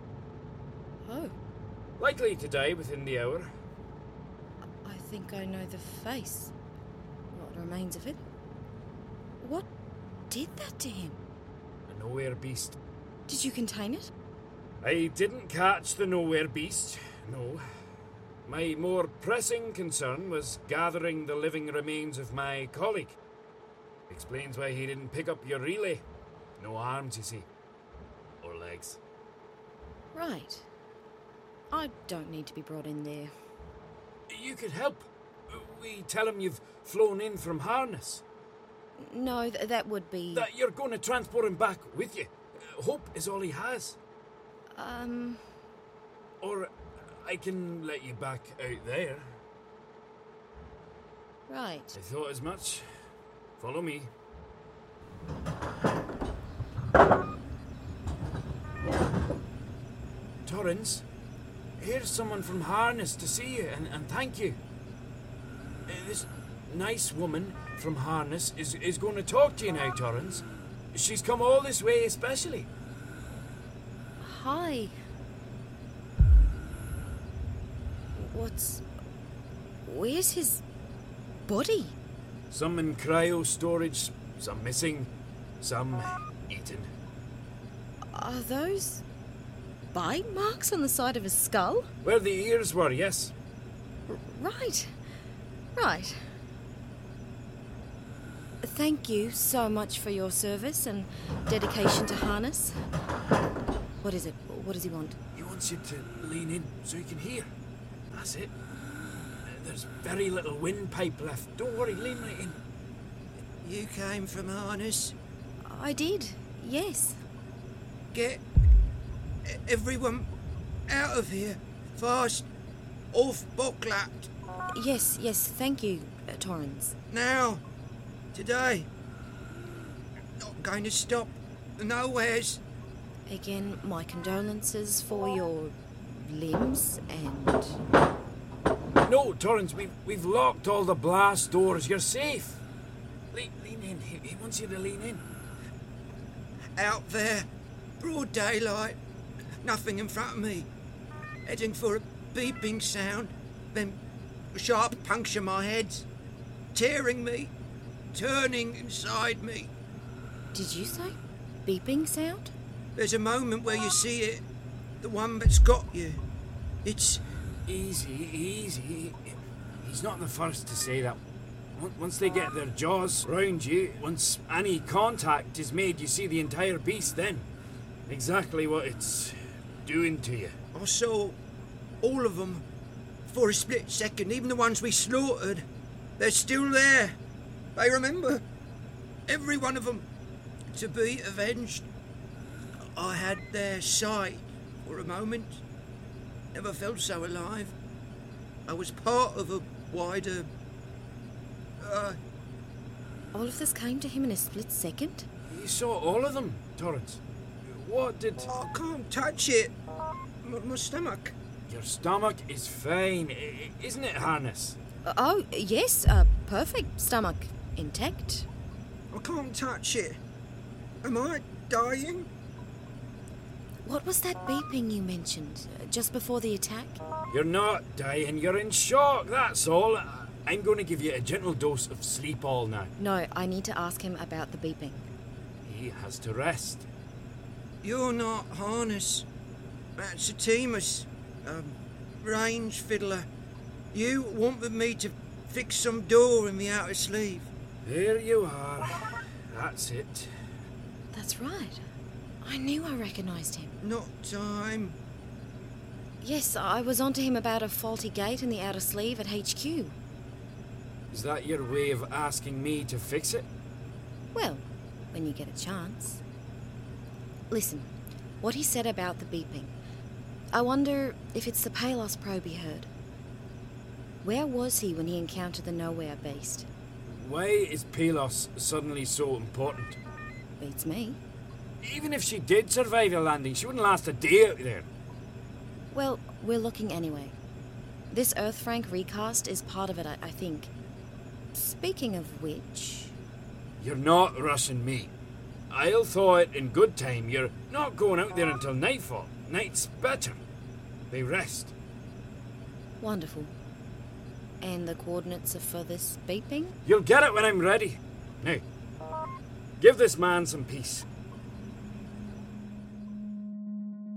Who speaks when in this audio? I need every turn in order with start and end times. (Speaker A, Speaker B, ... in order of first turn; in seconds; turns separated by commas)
Speaker A: 1.0-1.3, Speaker B: 2.0-3.5, Speaker A: 4.8-6.5, Speaker A: 7.3-8.2, Speaker A: 9.4-9.6, Speaker A: 10.3-11.2, Speaker B: 11.9-12.8, Speaker A: 13.3-14.1, Speaker B: 14.8-17.6, Speaker B: 18.4-23.2, Speaker B: 24.1-26.0, Speaker B: 26.6-27.5, Speaker B: 28.4-29.0, Speaker A: 30.1-30.6, Speaker A: 31.7-33.3, Speaker B: 34.3-38.2, Speaker A: 39.0-40.5, Speaker B: 40.3-44.0, Speaker A: 44.7-45.4, Speaker B: 46.4-49.3, Speaker A: 51.5-51.9, Speaker B: 51.9-52.9, Speaker B: 53.6-54.1, Speaker B: 60.5-61.0, Speaker B: 61.8-64.6, Speaker B: 65.9-72.7, Speaker A: 74.2-74.9, Speaker A: 78.2-78.8, Speaker A: 79.8-80.6, Speaker A: 81.5-81.9, Speaker B: 82.5-86.9, Speaker A: 88.1-89.0, Speaker A: 89.9-91.9, Speaker B: 92.0-93.3, Speaker A: 94.1-94.9, Speaker A: 95.8-96.2, Speaker A: 98.6-102.7, Speaker A: 104.0-105.2, Speaker B: 105.3-107.5, Speaker B: 108.1-108.5, Speaker B: 109.5-112.6, Speaker C: 113.6-115.1, Speaker A: 115.6-117.2, Speaker C: 118.1-118.4, Speaker C: 119.5-120.3, Speaker C: 120.9-122.5, Speaker C: 123.1-124.3, Speaker A: 124.7-126.9, Speaker C: 127.1-127.6, Speaker C: 128.3-128.9, Speaker C: 130.4-132.6, Speaker A: 133.3-137.8, Speaker B: 139.0-142.6, Speaker B: 143.3-145.2, Speaker C: 146.8-147.5, Speaker C: 148.0-149.0, Speaker C: 149.6-150.7, Speaker C: 151.4-154.0, Speaker C: 154.5-156.1, Speaker C: 156.7-157.5, Speaker C: 158.1-159.7, Speaker A: 160.5-162.5, Speaker C: 162.9-164.4, Speaker C: 165.0-166.2, Speaker C: 166.8-167.2, Speaker B: 167.7-171.2, Speaker B: 171.8-177.5, Speaker B: 178.1-180.6, Speaker C: 180.7-181.4, Speaker C: 182.0-182.6, Speaker C: 183.2-185.7, Speaker C: 186.2-187.2, Speaker C: 187.7-188.4, Speaker C: 189.3-190.0, Speaker C: 190.7-191.9, Speaker C: 192.8-195.6, Speaker C: 196.5-197.7, Speaker C: 198.7-200.5, Speaker C: 201.8-202.2, Speaker A: 203.3-205.2, Speaker B: 205.5-208.5, Speaker C: 208.4-209.7, Speaker C: 210.4-211.3, Speaker B: 211.7-214.8, Speaker A: 215.0-218.5, Speaker C: 219.1-220.2, Speaker C: 221.0-222.3, Speaker A: 223.8-227.0, Speaker B: 227.3-232.9, Speaker A: 233.0-235.1, Speaker B: 235.6-236.8, Speaker C: 237.8-239.2, Speaker C: 240.0-243.3, Speaker C: 243.9-247.5, Speaker B: 247.8-250.3, Speaker A: 251.1-251.8, Speaker A: 252.4-253.7, Speaker C: 253.8-255.0, Speaker A: 256.2-259.9, Speaker B: 261.1-263.5, Speaker A: 264.3-266.2, Speaker A: 267.5-267.9, Speaker A: 268.4-269.7, Speaker A: 270.5-272.9, Speaker A: 274.2-276.7, Speaker B: 277.1-280.0, Speaker A: 280.6-281.2, Speaker B: 281.8-284.9, Speaker A: 285.9-287.3, Speaker A: 288.1-290.7, Speaker A: 291.5-293.1, Speaker B: 293.8-295.1, Speaker B: 295.7-300.4, Speaker B: 301.1-301.7, Speaker A: 303.0-303.5, Speaker A: 304.6-306.7, Speaker B: 306.8-308.6, Speaker B: 309.8-311.1